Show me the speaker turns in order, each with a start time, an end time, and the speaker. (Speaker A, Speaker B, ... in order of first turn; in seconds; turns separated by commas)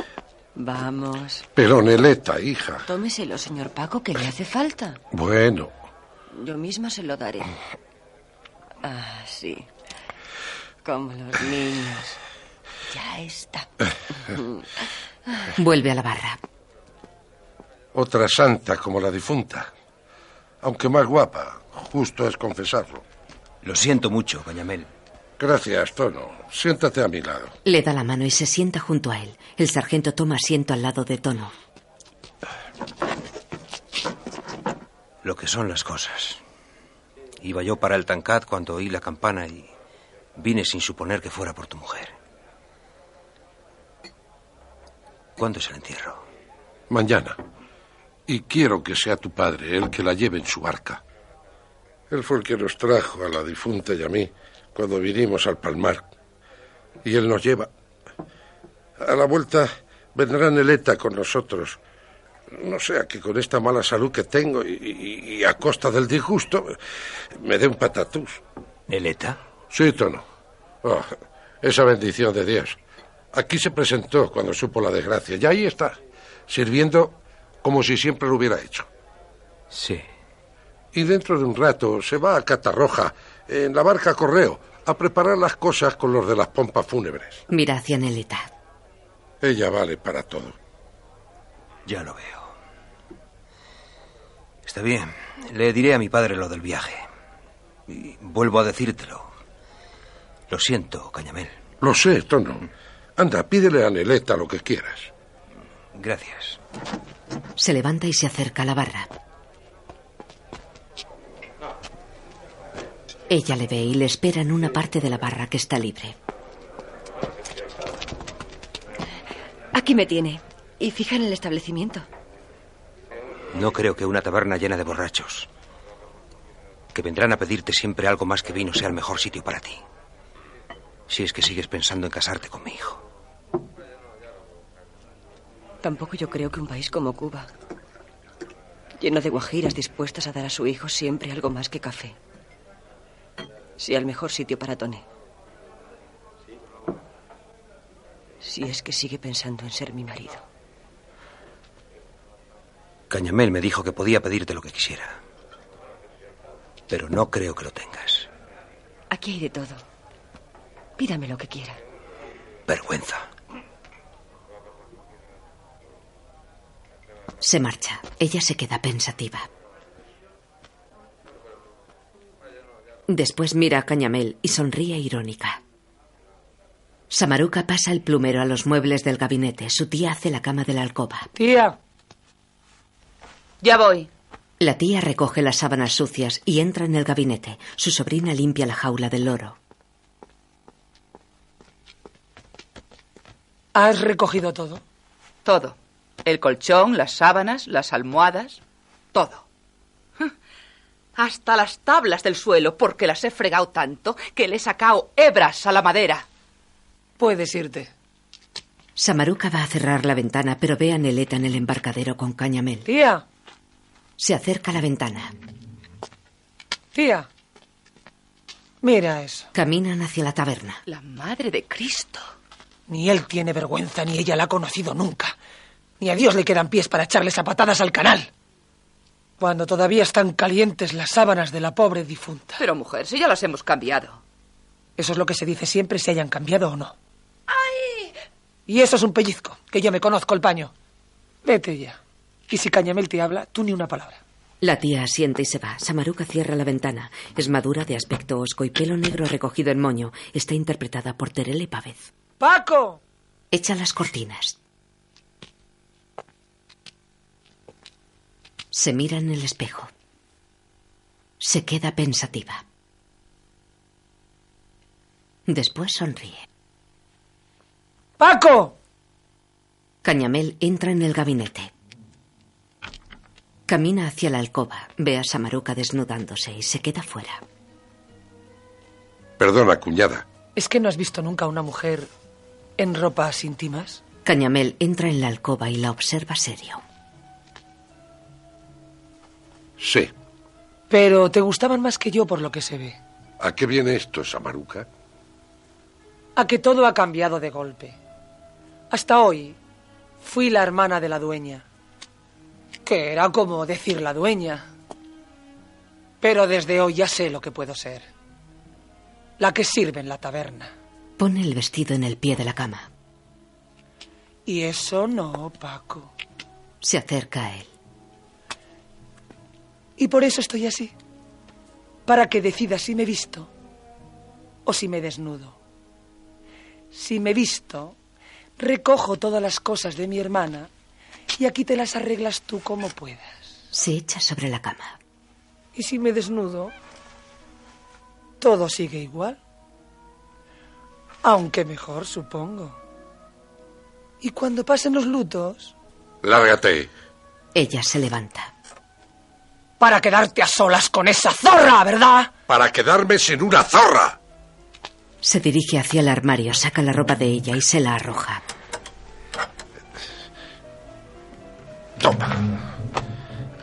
Speaker A: 0.5-1.4, Speaker B: 1.6-2.8, Speaker A: 2.9-5.0, Speaker B: 5.1-5.7, Speaker A: 6.3-7.5, Speaker A: 8.8-9.7, Speaker A: 10.8-12.2, Speaker A: 12.9-13.7, Speaker A: 14.3-14.8, Speaker C: 15.6-16.4, Speaker B: 17.9-19.7, Speaker B: 20.6-23.0, Speaker D: 23.6-24.9, Speaker B: 25.4-27.5, Speaker C: 27.6-31.5, Speaker D: 35.2-36.4, Speaker D: 37.4-39.7, Speaker D: 40.4-42.1, Speaker D: 45.4-46.2, Speaker B: 46.9-47.4, Speaker B: 48.3-51.0, Speaker B: 52.1-56.1, Speaker B: 57.0-57.7, Speaker B: 59.0-61.8, Speaker B: 62.5-66.8, Speaker B: 67.3-68.4, Speaker D: 68.9-69.4, Speaker B: 69.7-70.2, Speaker B: 70.8-72.8, Speaker B: 73.3-78.9, Speaker D: 79.7-80.0, Speaker B: 80.9-87.4, Speaker C: 87.5-88.5, Speaker B: 89.4-90.5, Speaker D: 91.8-92.5, Speaker D: 94.6-97.0, Speaker D: 97.9-99.3, Speaker D: 100.5-101.5, Speaker B: 101.8-105.1, Speaker D: 105.9-106.6, Speaker C: 107.6-109.1, Speaker C: 113.3-116.1, Speaker A: 119.7-122.0, Speaker D: 123.5-125.5, Speaker D: 126.9-129.8, Speaker D: 131.1-133.0, Speaker A: 135.8-137.5, Speaker A: 139.0-142.2, Speaker A: 143.8-145.0, Speaker A: 148.4-150.4, Speaker D: 153.1-155.2, Speaker D: 156.9-158.3, Speaker A: 159.1-159.8, Speaker A: 161.0-161.8, Speaker D: 162.7-163.3, Speaker C: 167.4-169.5, Speaker C: 173.1-175.6, Speaker C: 177.1-181.3, Speaker E: 181.3-181.8, Speaker F: 183.6-184.1, Speaker C: 184.6-189.6, Speaker E: 193.7-194.8, Speaker F: 195.4-198.6, Speaker F: 199.1-199.4, Speaker F: 201.2-206.2, Speaker E: 207.2-207.9, Speaker C: 209.0-212.9, Speaker E: 212.8-213.2, Speaker C: 214.2-215.3, Speaker E: 216.9-217.3, Speaker E: 218.8-219.5, Speaker C: 219.5-220.8, Speaker F: 220.8-222.3, Speaker E: 222.9-225.3, Speaker E: 226.0-228.3, Speaker E: 229.4-232.6, Speaker F: 232.6-234.2, Speaker E: 235.0-236.9, Speaker E: 238.7-240.7, Speaker E: 241.4-242.0, Speaker E: 242.5-244.2, Speaker C: 244.6-252.1, Speaker E: 252.4-253.0, Speaker C: 253.5-254.6, Speaker C: 258.7-259.9, Speaker C: 261.4-262.6, Speaker C: 265.5-266.4, Speaker E: 268.2-268.8, Speaker C: 270.0-271.7, Speaker C: 273.7-277.4, Speaker B: 279.4-280.2, Speaker E: 280.5-282.1, Speaker E: 282.8-284.0, Speaker C: 284.2-286.8, Speaker B: 289.8-290.1, Speaker E: 290.9-293.0, Speaker B: 293.4-294.9, Speaker E: 296.4-298.0, Speaker E: 298.9-299.6, Speaker E: 300.2-301.6, Speaker E: 302.8-304.7, Speaker E: 306.2-308.1, Speaker E: 309.4-310.7, Speaker C: 311.2-312.9, Speaker E: 314.4-316.1, Speaker C: 316.8-317.7, Speaker E: 320.0-320.9, Speaker E: 322.1-323.5, Speaker E: 324.6-325.6, Speaker E: 326.9-327.9, Speaker E: 328.6-330.7, Speaker E: 331.3-333.5, Speaker C: 333.7-335.0, Speaker E: 335.7-336.7, Speaker E: 338.4-339.4, Speaker E: 341.2-342.8, Speaker E: 344.2-345.7, Speaker B: 346.2-346.9, Speaker C: 347.5-348.5, Speaker E: 349.8-352.3, Speaker B: 352.5-354.2, Speaker C: 355.2-358.4, Speaker B: 362.0-362.5